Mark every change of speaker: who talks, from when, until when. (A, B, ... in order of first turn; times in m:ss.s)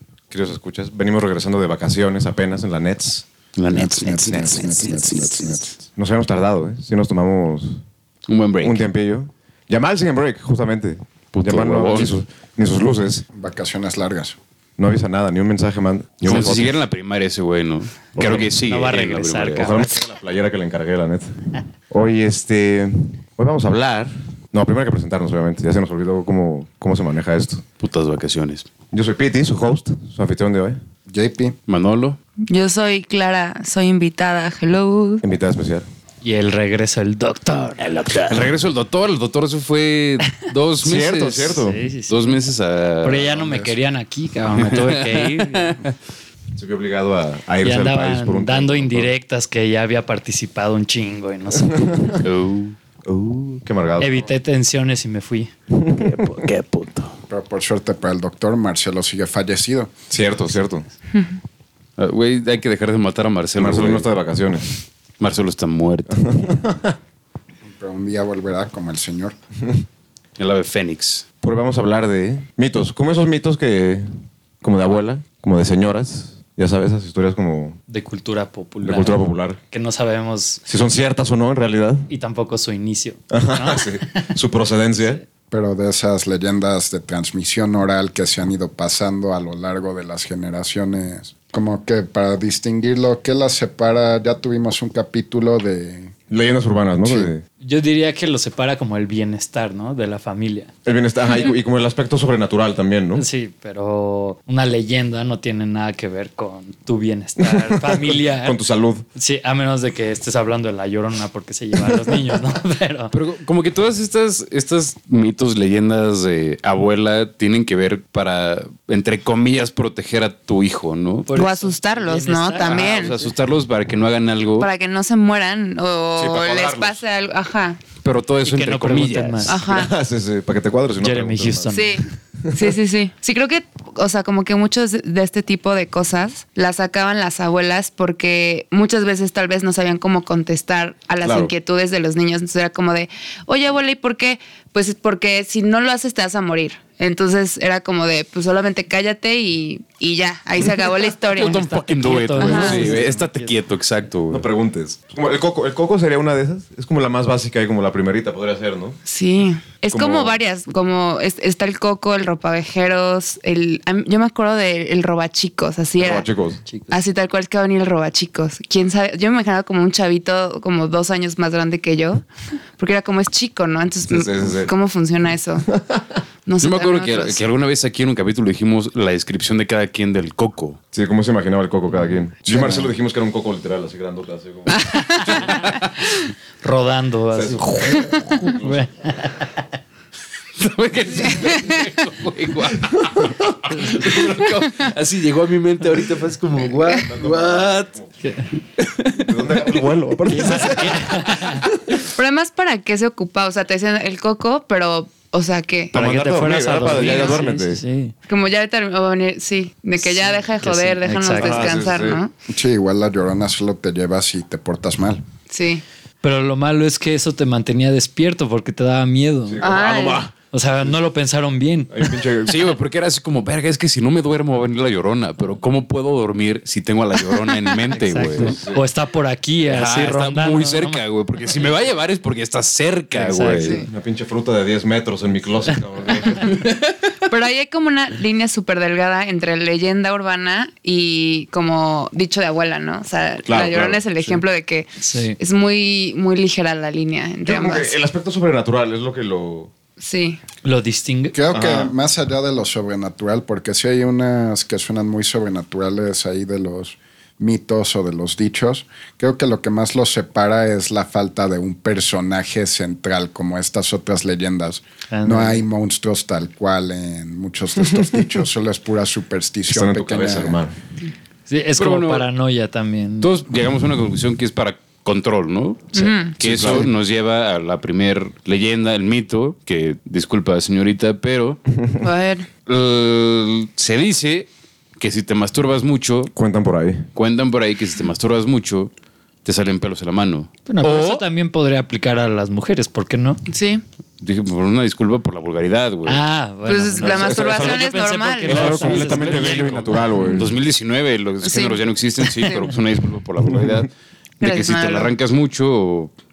0:00.3-0:03.2 A
0:03.6-0:05.6 B
0:03.7-0:05.8 C
0:05.9-0:07.8 A
0:08.3-0:08.8 B
0:08.6-0:13.2 A
0:11.3-0:12.2 B
0:13.3-0:14.4 C
0:14.8-0:16.8 A
0:16.2-0:19.7 B
0:18.2-0:19.9 D
0:18.2-0:18.5 A
0:19.6-0:21.4 A
0:21.9-0:27.6 A
0:27.8-0:28.6 B
0:28.9-0:30.8 A
0:31.1-0:31.6 C
0:31.7-0:32.2 B
0:32.5-0:35.2 E
0:35.2-0:35.8 A
0:36.2-0:38.1 D
0:37.8-0:43.3 B
0:40.8-0:41.8 A
0:41.4-0:42.4 D
0:43.0-0:45.8 D
0:43.4-0:43.7 C
0:44.5-0:45.8 B
0:46.5-0:49.1 A
0:47.6-0:52.2 D
0:51.7-0:52.2 A
0:52.2-0:52.7 B
0:53.0-0:54.2 A
0:54.0-0:55.5 D
0:55.7-0:56.5 A
0:55.9-0:57.2 B
0:57.3-0:59.9 C
1:00.1-1:00.8 A
1:02.0-1:04.0 B
1:03.6-1:04.7 A
1:05.2-1:06.2 B
1:06.1-1:07.0 A
1:07.6-1:09.4 C
1:10.4-1:11.2 B
1:11.4-1:14.0 A
1:14.6-1:17.8 A
1:17.9-1:20.6 D
1:18.8-1:19.6 A
1:20.7-1:22.1 A
1:22.1-1:24.3 D
1:23.3-1:25.2 A
1:25.5-1:36.2 C
1:36.3-1:37.4 A
1:37.0-1:37.3 C
1:37.6-1:40.7 D
1:40.8-1:43.2 A
1:43.1-1:48.6 D
1:47.4-1:49.0 A
1:49.2-1:53.1 D
1:51.8-1:52.2 A
1:53.1-2:01.4 B
2:01.3-2:03.1 D
2:01.3-2:03.2 E
2:02.6-2:04.7 B
2:04.6-2:07.8 E
2:06.2-2:07.0 A
2:08.0-2:09.6 B
2:08.4-2:09.6 D
2:09.4-2:09.9 E
2:09.6-2:11.8 A
2:11.0-2:12.0 D
2:11.7-2:31.6 E
2:12.4-2:12.7 A
2:21.2-2:21.5 A
2:31.3-2:34.5 B
2:31.4-2:33.5 D
2:32.4-2:32.9 E
2:32.5-2:33.0 A
2:34.3-2:39.0 A
2:39.0-2:46.3 E
2:39.9-2:40.4 A
2:46.0-2:46.6 A
2:46.7-2:46.9 D
2:46.9-2:52.2 E
2:52.8-2:55.7 E
2:54.1-2:54.7 A
2:55.7-2:56.2 A
2:56.4-2:57.4 E
2:56.6-3:00.8 B
3:00.9-3:05.6 A
3:02.4-3:02.9 C
3:04.7-3:05.3 E
3:05.5-3:05.9 B
3:06.6-3:09.5 D
3:07.3-3:08.9 A
3:10.6-3:18.0 B
3:16.9-3:18.1 A
3:18.2-3:18.5 D
3:18.8-3:19.7 B
3:19.2-3:21.9 A
3:20.3-3:21.6 D
3:22.0-3:26.0 E
3:25.9-3:27.8 A
3:25.9-3:28.1 D
3:26.9-3:27.4 E
3:28.3-3:32.3 E
3:30.5-3:31.7 D
3:31.4-3:32.2 A
3:32.5-3:35.2 C
3:35.5-3:35.8 E
3:36.2-3:39.6 D
3:39.4-3:40.3 A
3:39.6-3:40.2 E
3:40.5-3:41.9 D
3:41.9-3:42.6 A
3:42.4-3:48.6 B
3:47.9-3:51.0 D
3:48.3-3:48.8 A
3:49.6-3:53.8 B
3:53.1-3:53.9 D
3:53.9-3:56.6 A
3:56.5-3:56.9 B
3:57.2-4:07.9 E
4:03.4-4:04.4 A
4:05.0-4:05.4 D
4:07.4-4:09.7 A
4:10.0-4:10.4 E
4:10.6-4:11.4 D
4:11.3-4:30.6 C
4:11.5-4:11.9 A
4:25.1-4:25.6 D
4:27.9-4:28.3 A
4:29.7-4:30.7 A
4:31.5-4:33.3 D
4:31.8-4:32.2 B
4:33.2-4:41.6 B
4:35.9-4:36.4 E
4:36.4-4:36.9 A
4:41.7-4:42.0 A
4:42.0-4:42.5 E
4:42.7-4:44.5 B
4:45.0-4:46.3 B
4:46.3-4:47.1 A
4:47.1-4:48.9 B
4:49.4-4:51.2 B
4:50.7-4:53.4 D
4:53.5-4:53.8 E
4:54.2-4:56.2 B
4:56.0-5:00.4 D
4:56.6-4:59.3 E
4:57.0-4:57.9 A
4:58.4-5:00.5 A
4:58.7-5:06.1 B
5:01.4-5:01.8 E
5:02.3-5:02.6 E
5:03.5-5:03.8 A
5:04.4-5:05.1 E